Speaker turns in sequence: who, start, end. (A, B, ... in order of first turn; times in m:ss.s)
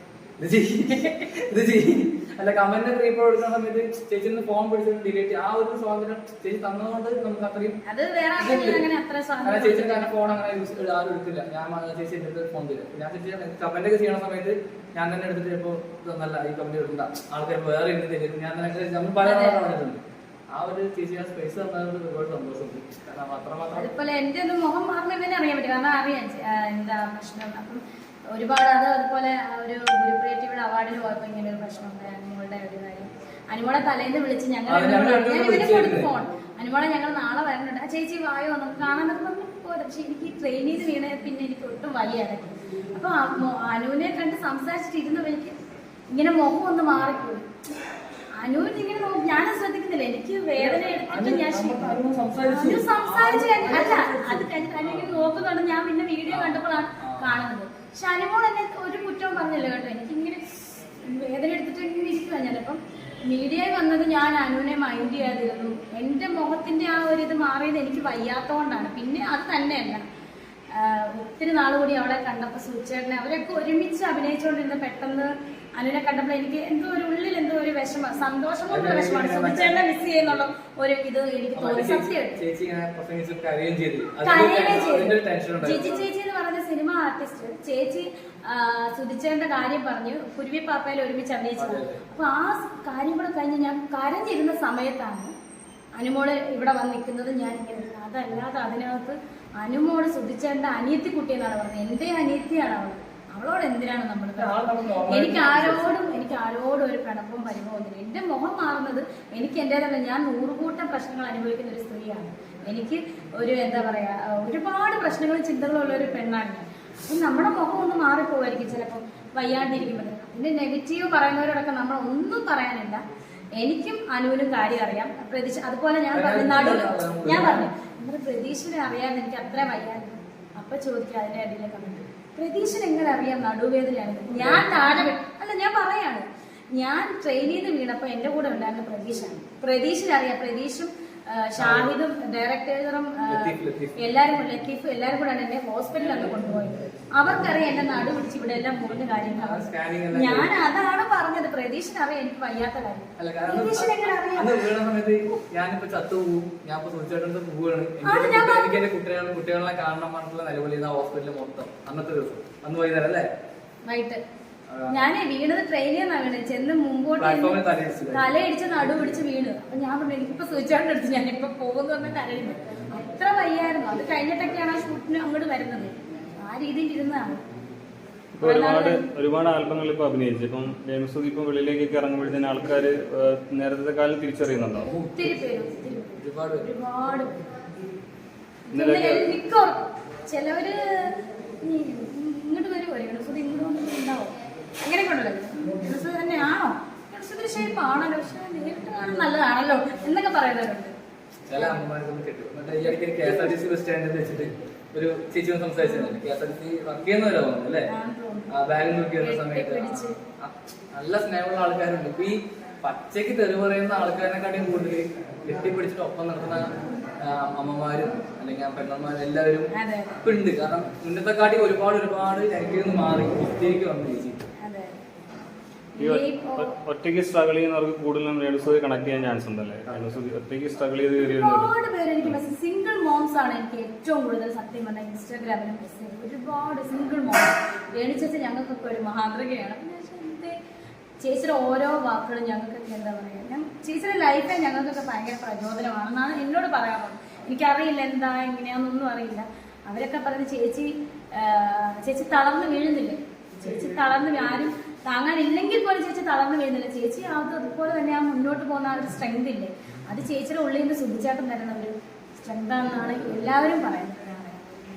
0:00.4-0:07.8 A
0:07.8-0:10.1 B
0:08.4-0:08.9 A
0:09.4-0:20.0 A
0:19.2-0:19.7 B
0:20.5-0:23.9 A
0:23.7-0:45.5 B
0:34.7-0:36.1 A
0:46.1-0:47.5 B
0:48.4-0:51.8 B
0:50.6-0:55.1 A
0:52.4-1:10.0 B
0:56.3-0:57.3 A
1:10.7-1:22.4 B
1:18.7-1:19.9 A
1:21.6-1:26.1 A
1:24.2-1:35.3 B
1:31.6-1:32.0 A
1:36.0-2:03.0 B
1:44.4-1:46.0 A
2:03.6-2:34.7 B
2:06.1-2:07.7 A
2:14.4-2:15.0 A
2:21.6-2:21.9 A
2:23.3-2:24.0 A
2:29.3-2:30.6 A
2:33.2-2:43.3 A
2:38.0-2:38.7 B
2:43.9-2:44.2 B
2:44.7-2:45.0 A
2:44.9-2:55.9 B
2:47.2-2:48.2 A
2:56.4-2:57.4 B
2:58.3-3:04.9 C
2:58.4-2:59.0 B
3:04.9-3:05.3 A
3:05.1-3:07.3 B
3:06.2-3:06.7 A
3:08.7-3:20.9 B
3:08.7-3:09.3 C
3:21.5-3:27.8 A
3:27.9-3:28.5 B
3:28.5-3:36.6 A
3:29.2-3:30.2 B
3:37.2-3:39.7 A
3:39.7-3:40.2 B
3:40.2-3:44.5 A
3:44.6-3:45.0 B
3:45.9-3:46.7 B
3:46.0-3:51.7 C
3:51.2-4:00.5 B
4:01.2-4:24.6 B